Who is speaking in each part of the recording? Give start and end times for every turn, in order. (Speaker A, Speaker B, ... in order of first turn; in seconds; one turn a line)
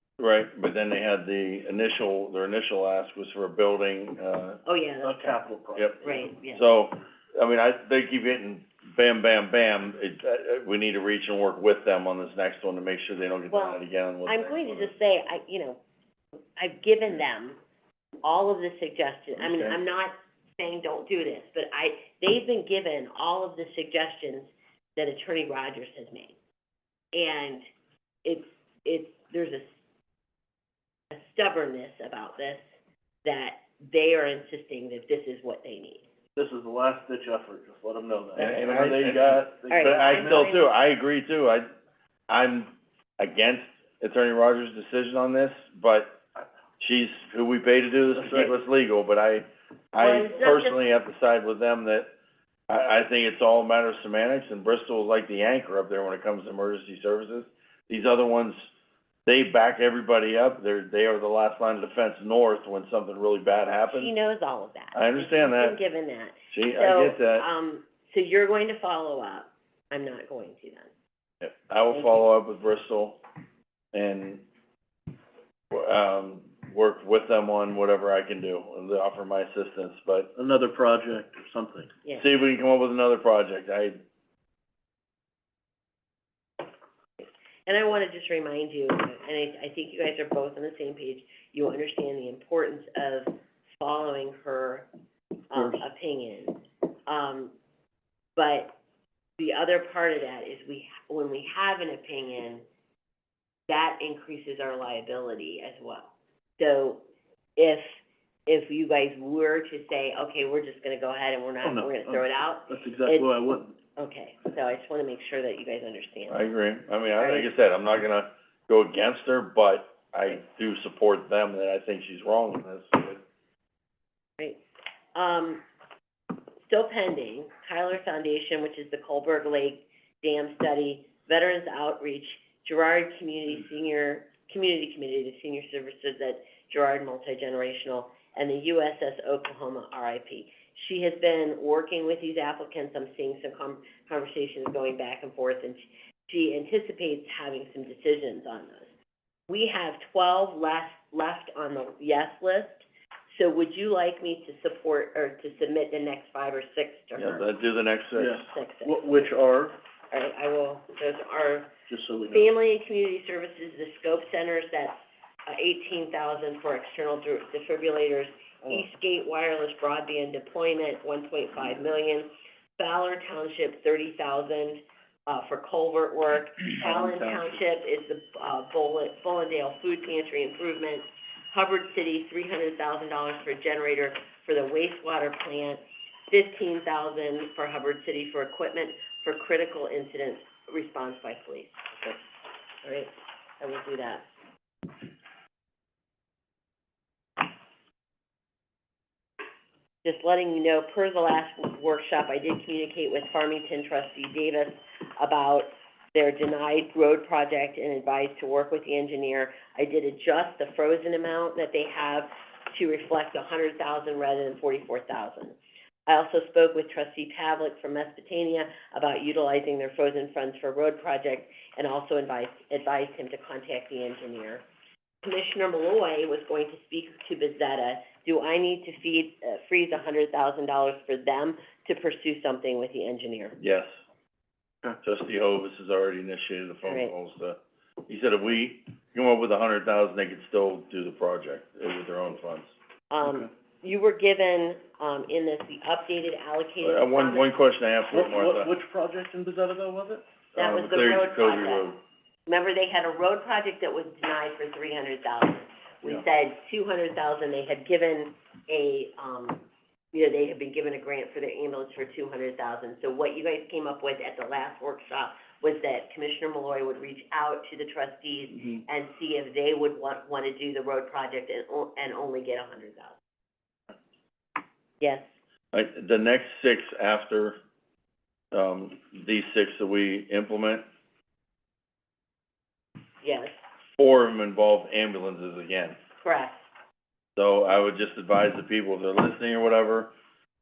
Speaker A: 0.2-4.6
Speaker B: 4.6-5.4
Speaker C: 5.0-6.2
Speaker B: 6.0-6.7
Speaker A: 6.5-14.9
Speaker B: 13.5-15.8
Speaker B: 16.6-17.6
Speaker B: 18.2-26.3
Speaker C: 19.4-19.8
Speaker B: 27.1-27.6
Speaker B: 28.2-29.7
Speaker B: 31.1-32.6
Speaker B: 33.2-36.0
Speaker C: 36.4-40.4
Speaker B: 38.4-39.1
Speaker A: 38.4-41.7
Speaker B: 39.7-40.7
Speaker A: 42.3-46.2
Speaker A: 46.8-52.1
Speaker B: 50.0-50.8
Speaker A: 52.7-58.7
Speaker A: 59.2-64.1
Speaker B: 63.9-70.9
Speaker A: 64.9-65.8
Speaker A: 66.5-67.5
Speaker A: 71.4-73.2
Speaker B: 71.9-72.3
Speaker A: 73.9-74.4
Speaker A: 75.7-80.3
Speaker C: 80.3-81.9
Speaker A: 82.2-84.0
Speaker B: 87.2-94.9
Speaker B: 95.5-97.5
Speaker B: 98.3-98.7
Speaker B: 99.4-102.6
Speaker B: 103.7-107.0
Speaker B: 107.6-113.3
Speaker C: 111.6-113.7
Speaker B: 114.0-116.5
Speaker A: 116.3-123.2
Speaker B: 117.2-117.5
Speaker B: 125.1-125.6
Speaker B: 126.7-148.9
Speaker B: 149.5-157.5
Speaker A: 157.2-158.5
Speaker C: 158.2-159.8
Speaker B: 158.4-159.3
Speaker B: 160.1-161.7
Speaker C: 161.9-162.5
Speaker B: 162.3-192.2
Speaker B: 192.8-194.3
Speaker B: 200.0-224.6
Speaker B: 225.2-233.6
Speaker A: 233.6-233.9
Speaker A: 235.0-242.7
Speaker B: 236.8-237.1
Speaker B: 243.1-247.5
Speaker A: 246.8-248.7
Speaker C: 248.1-250.2
Speaker B: 250.6-251.9
Speaker A: 250.6-252.0
Speaker B: 252.5-273.1
Speaker B: 275.0-275.3
Speaker A: 275.7-277.6
Speaker A: 278.5-280.8
Speaker B: 283.2-283.5
Speaker A: 284.0-285.9
Speaker B: 286.2-286.6
Speaker A: 287.4-290.1